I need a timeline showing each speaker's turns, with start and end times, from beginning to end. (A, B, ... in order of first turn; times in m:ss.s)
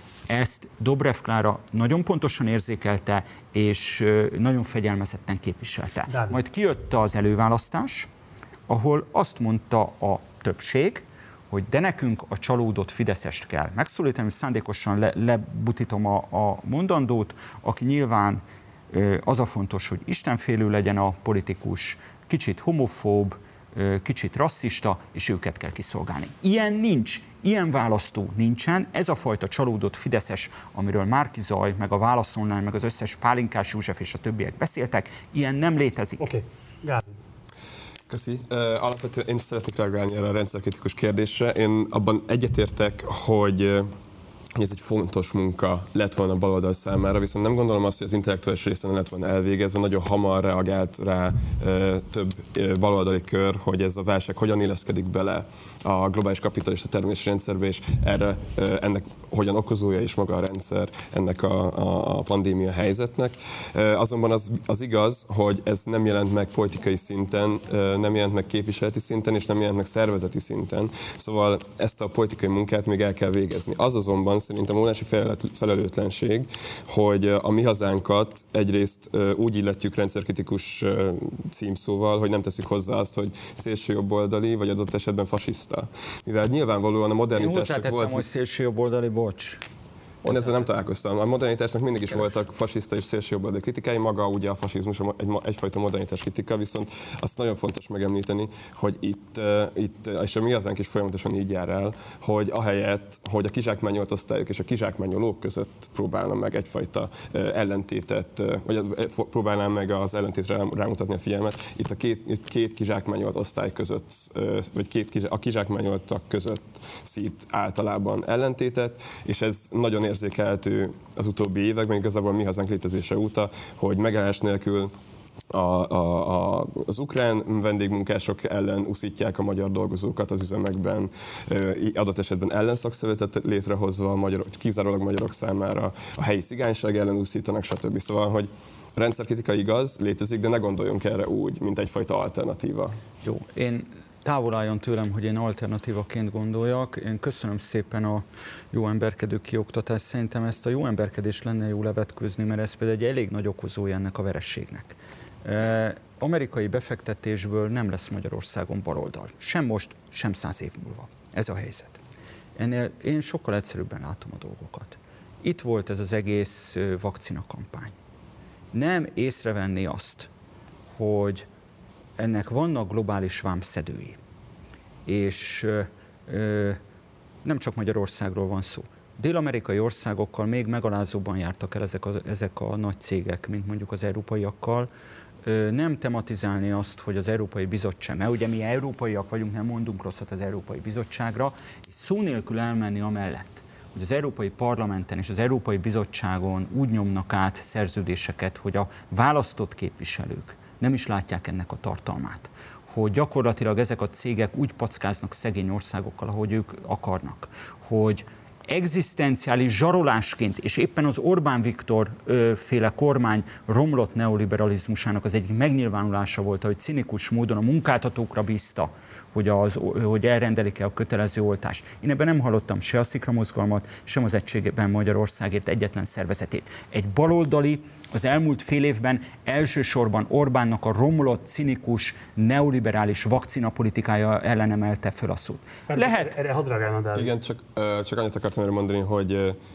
0:00.3-0:08.1 A
0:06.1-0:06.4 B
0:08.7-0:36.3 A
0:36.2-0:37.1 B
0:38.1-0:43.9 C
0:44.6-1:28.2 C
1:27.4-1:29.6 A
1:30.2-2:04.9 C
1:30.2-1:30.6 A
2:05.5-2:23.0 C
2:23.2-2:42.0 A
2:42.6-2:47.9 A
2:48.7-2:50.3 A
2:50.9-2:51.5 A
2:52.2-2:54.2 A
2:55.1-2:56.8 A
2:57.4-3:04.9 A
3:05.4-3:56.4 A
3:55.9-3:57.3 B
3:57.2-3:59.6 C